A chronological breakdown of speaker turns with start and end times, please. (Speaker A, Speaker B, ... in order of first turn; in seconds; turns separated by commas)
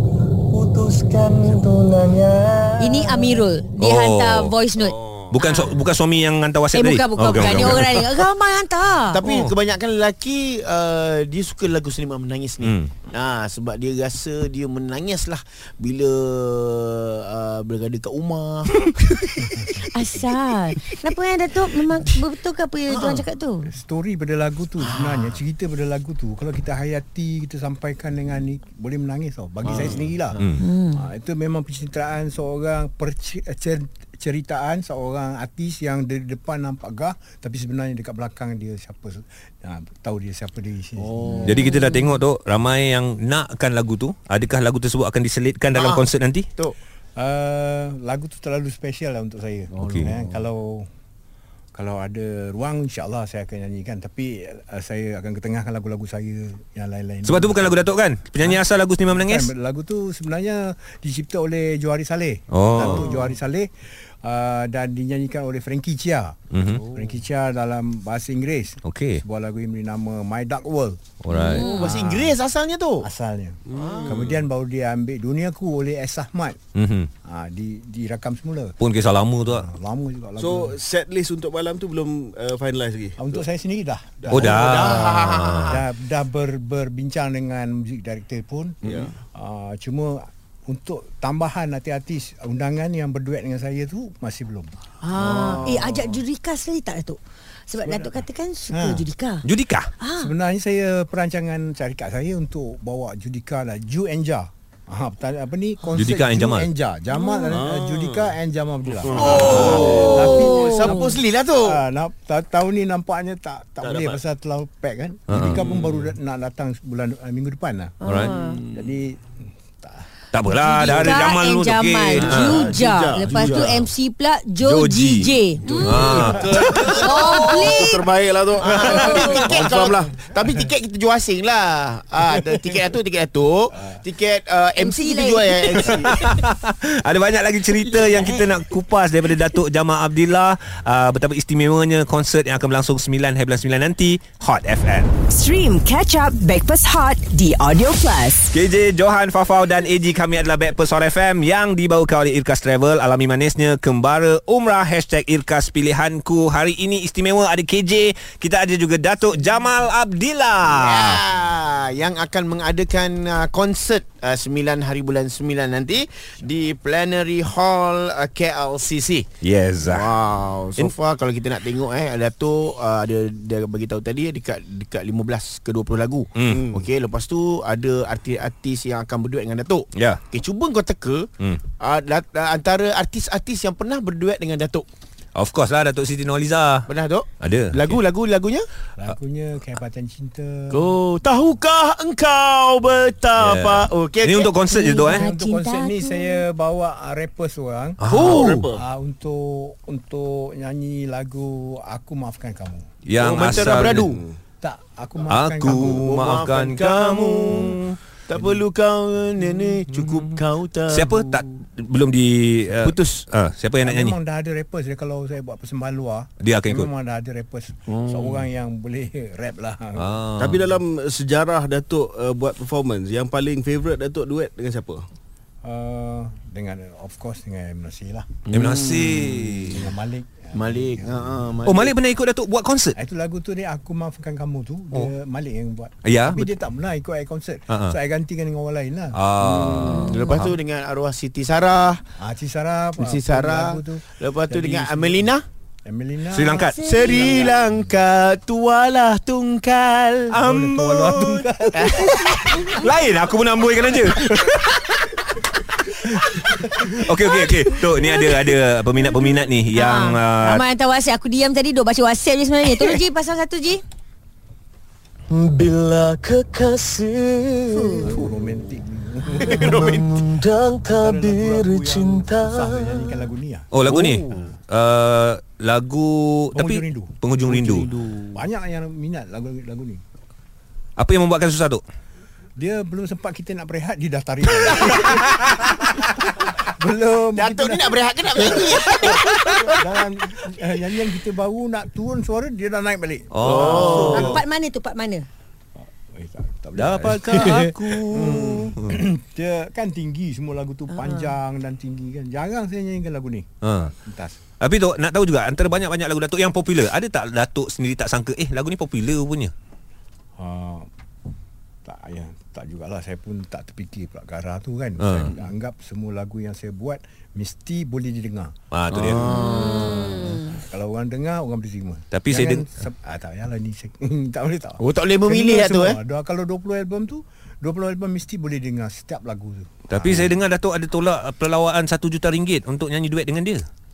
Speaker A: 0.5-3.3, Speaker B: 2.8-5.8, Speaker C: 3.8-4.5, Speaker D: 4.8-5.3, Speaker C: 5.3-8.1, Speaker B: 6.7-9.2, Speaker E: 9.1-19.9, Speaker C: 9.2-9.6, Speaker C: 12.6-12.9, Speaker B: 19.9-23.7, Speaker E: 22.9-23.2, Speaker F: 23.6-30.4, Speaker E: 24.8-25.4, Speaker E: 29.6-30.5, Speaker B: 30.6-31.1, Speaker F: 30.9-41.5, Speaker E: 41.0-41.5, Speaker B: 41.3-42.2, Speaker C: 41.4-46.5, Speaker E: 45.7-46.8, Speaker F: 47.2-50.9, Speaker C: 49.8-50.1, Speaker E: 49.8-50.4, Speaker F: 51.8-57.9, Speaker C: 57.2-59.5, Speaker F: 58.4-63.7, Speaker C: 62.5-63.1, Speaker E: 62.8-63.4, Speaker F: 64.2-66.4, Speaker C: 66.5-66.8, Speaker F: 66.9-72.4, Speaker C: 68.8-69.2, Speaker C: 71.2-71.7, Speaker B: 71.3-72.0, Speaker E: 71.6-73.1, Speaker F: 73.0-76.6, Speaker D: 73.7-74.5, Speaker C: 76.8-77.1, Speaker F: 77.2-78.8, Speaker C: 78.8-79.7, Speaker F: 79.5-80.8, Speaker D: 80.4-83.4, Speaker F: 83.2-84.8, Speaker C: 84.3-85.8, Speaker E: 84.4-85.8, Speaker F: 85.7-94.7, Speaker D: 88.8-89.1, Speaker B: 95.0-99.5, Speaker E: 95.2-95.8, Speaker F: 95.3-96.1, Speaker F: 97.9-99.0, Speaker C: 99.4-99.9, Speaker B: 100.0-100.3, Speaker F: 100.2-119.2, Speaker C: 106.0-106.7, Speaker B: 107.1-107.6, Speaker D: 107.5-108.4, Speaker D: 108.9-110.2, Speaker E: 109.1-111.8, Speaker B: 110.0-111.2, Speaker D: 113.8-114.2, Speaker C: 115.3-115.6, Speaker D: 115.5-116.1, Speaker B: 118.0-118.6, Speaker C: 118.0-118.4, Speaker D: 118.5-118.9, Speaker F: 119.8-120.1, Speaker C: 120.3-122.7, Speaker B: 120.6-128.1, Speaker D: 122.1-123.9, Speaker C: 124.6-125.3, Speaker D: 125.7-130.2, Speaker C: 125.8-126.9, Speaker F: 126.2-126.8, Speaker E: 128.6-136.1, Speaker B: 128.8-129.4, Speaker F: 133.7-134.0, Speaker B: 134.8-136.2, Speaker C: 135.7-145.1, Speaker B: 137.9-138.4, Speaker G: 145.3-148.5, Speaker C: 148.5-161.2, Speaker E: 160.7-169.2, Speaker C: 169.4-170.1, Speaker E: 169.8-184.9, Speaker C: 176.4-176.6, Speaker D: 176.5-176.8, Speaker C: 179.9-180.2, Speaker C: 185.3-188.0, Speaker E: 186.9-188.6, Speaker F: 189.0-190.8, Speaker E: 190.7-194.6, Speaker C: 193.4-195.2, Speaker B: 194.6-196.4, Speaker F: 195.0-198.1, Speaker C: 198.0-198.4, Speaker E: 198.1-198.6, Speaker D: 198.2-198.8, Speaker F: 198.6-202.9, Speaker C: 203.1-204.1, Speaker E: 203.2-204.2, Speaker D: 204.0-204.3, Speaker F: 204.6-206.3, Speaker C: 205.3-208.0, Speaker E: 205.7-211.1, Speaker C: 210.0-210.3, Speaker C: 210.9-214.2, Speaker E: 212.8-213.2, Speaker F: 213.8-220.1, Speaker C: 216.4-216.9, Speaker C: 220.0-220.7, Speaker D: 220.4-225.1, Speaker F: 225.6-228.4, Speaker E: 228.5-229.7, Speaker C: 228.5-229.9, Speaker F: 229.7-231.5, Speaker E: 230.6-232.0, Speaker C: 231.6-232.9, Speaker F: 233.0-239.2, Speaker C: 236.0-236.5, Speaker C: 237.7-237.9, Speaker C: 239.1-240.6, Speaker E: 239.4-242.0, Speaker B: 239.9-240.4, Speaker F: 242.2-245.3, Speaker E: 243.0-245.4, Speaker F: 245.9-247.5, Speaker C: 246.3-246.8, Speaker B: 246.6-247.5, Speaker E: 246.8-250.3, Speaker C: 250.3-251.5, Speaker F: 250.3-252.6, Speaker E: 251.7-252.8, Speaker C: 252.0-255.1, Speaker C: 256.8-260.6, Speaker B: 259.7-263.8, Speaker A: 265.3-268.1, Speaker F: 267.9-270.1, Speaker E: 269.4-270.3, Speaker A: 269.7-273.0, Speaker F: 270.8-273.7, Speaker C: 273.7-277.9, Speaker E: 273.9-274.5, Speaker F: 276.5-277.1, Speaker E: 277.5-278.4, Speaker F: 278.3-280.0, Speaker C: 281.0-281.8, Speaker F: 282.6-294.4, Speaker E: 287.4-289.8, Speaker C: 293.3-294.4, Speaker E: 293.5-294.3, Speaker D: 293.5-294.0, Speaker B: 294.1-295.2, Speaker F: 295.8-304.4, Speaker C: 296.8-299.0, Speaker B: 300.9-301.3, Speaker C: 303.6-303.9, Speaker C: 304.6-309.5, Speaker F: 310.4-310.9, Speaker F: 311.9-318.6, Speaker C: 315.0-315.3, Speaker C: 318.7-319.2, Speaker E: 318.9-320.3, Speaker B: 319.2-320.5, Speaker F: 320.1-330.4, Speaker C: 322.1-322.7, Speaker E: 324.8-326.0, Speaker C: 329.9-333.6